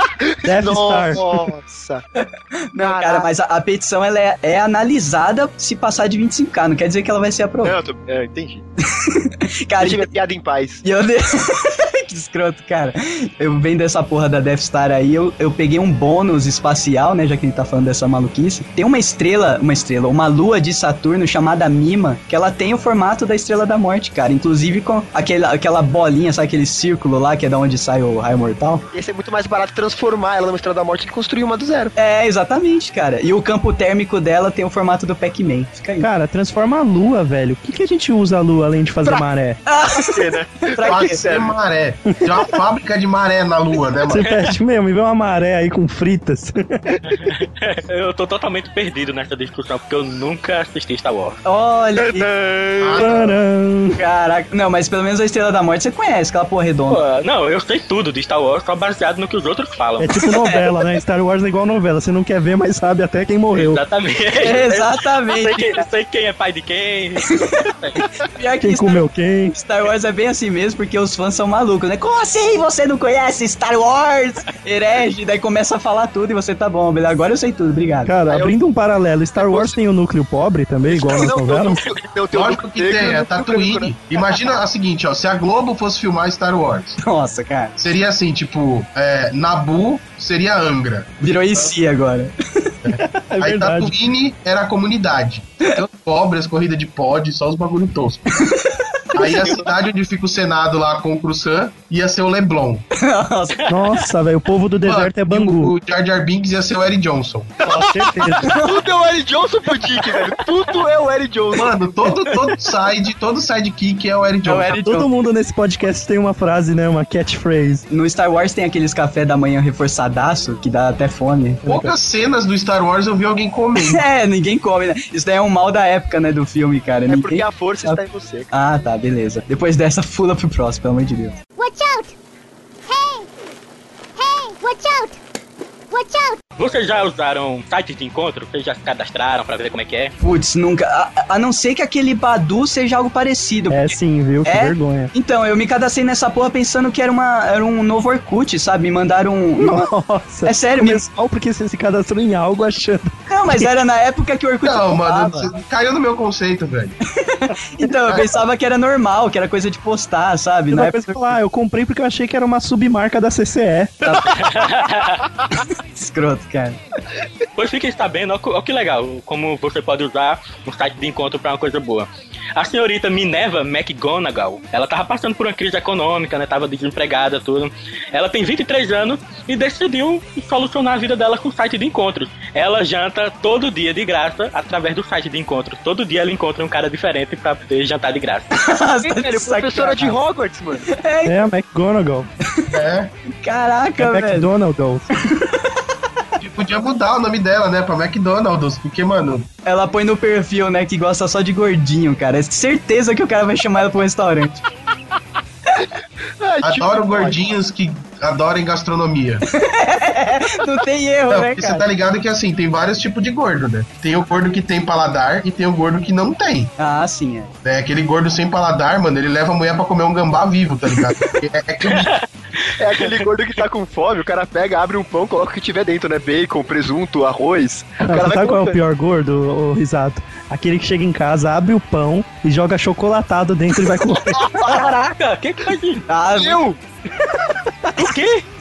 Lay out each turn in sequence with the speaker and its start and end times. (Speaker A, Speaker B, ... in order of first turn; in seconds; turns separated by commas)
Speaker A: 0.2-2.0, Speaker B: 0.4-1.4, Speaker C: 2.2-7.8, Speaker A: 2.8-3.3, Speaker A: 7.6-8.6, Speaker C: 8.9-10.1, Speaker A: 9.8-10.8, Speaker C: 10.8-28.9, Speaker A: 28.9-31.9, Speaker C: 32.0-36.1, Speaker B: 36.0-39.6, Speaker C: 39.7-41.2, Speaker A: 39.9-41.6, Speaker D: 40.8-44.3, Speaker B: 42.1-42.4, Speaker B: 44.0-46.9, Speaker E: 44.2-44.5, Speaker E: 47.1-51.4, Speaker C: 51.5-52.3, Speaker A: 52.1-53.1, Speaker D: 52.8-53.4, Speaker B: 53.0-54.0, Speaker C: 54.0-57.0, Speaker E: 56.9-60.2, Speaker B: 60.0-63.8, Speaker C: 60.4-60.8, Speaker E: 63.5-68.0, Speaker C: 64.4-65.9, Speaker C: 67.3-78.1, Speaker B: 68.6-69.6, Speaker B: 78.1-81.8, Speaker A: 78.3-78.6, Speaker A: 79.4-79.8, Speaker A: 80.9-84.4, Speaker D: 82.3-87.0, Speaker C: 87.0-87.8, Speaker D: 87.8-91.1, Speaker C: 91.2-92.7, Speaker D: 92.8-98.4, Speaker B: 93.0-93.9, Speaker C: 98.4-98.9, Speaker D: 99.2-102.8, Speaker C: 103.0-103.6, Speaker B: 103.7-105.8, Speaker D: 104.8-107.6, Speaker A: 107.6-111.7, Speaker B: 107.7-108.5, Speaker C: 108.5-108.7, Speaker D: 111.5-114.8, Speaker C: 114.4-115.1, Speaker B: 114.8-117.8, Speaker C: 117.9-121.6, Speaker B: 121.7-122.0, Speaker D: 121.7-124.0, Speaker C: 123.8-128.0, Speaker A: 127.1-128.5, Speaker C: 128.5-131.4, Speaker F: 131.6-132.1, Speaker F: 132.8-133.3, Speaker F: 134.2-135.2, Speaker F: 135.9-136.4, Speaker E: 136.6-140.1, Speaker C: 140.2-149.9, Speaker B: 143.7-145.1, Speaker B: 149.6-153.7, Speaker C: 150.4-151.0, Speaker C: 153.3-155.5, Speaker D: 154.6-157.0, Speaker C: 157.2-161.4, Speaker B: 160.7-164.0, Speaker C: 164.0-164.4, Speaker E: 164.2-165.3, Speaker C: 165.5-166.8, Speaker E: 167.6-188.5, Speaker C: 188.5-190.2, Speaker A: 189.0-190.9, Speaker C: 190.9-191.4, Speaker B: 191.3-192.3, Speaker D: 192.7-193.1, Speaker C: 193.4-194.5, Speaker B: 194.0-195.1, Speaker C: 195.2-195.7, Speaker D: 196.4-199.5, Speaker C: 199.7-204.6, Speaker A: 206.4-207.4, Speaker D: 206.6-209.4, Speaker C: 209.5-211.8, Speaker D: 211.3-216.7, Speaker C: 216.8-217.5, Speaker D: 217.6-222.1, Speaker E: 221.8-223.3, Speaker A: 222.8-228.8, Speaker B: 228.0-234.5, Speaker A: 234.3-234.8, Speaker E: 234.5-236.0, Speaker C: 236.1-236.6, Speaker A: 236.4-236.8, Speaker E: 238.0-238.5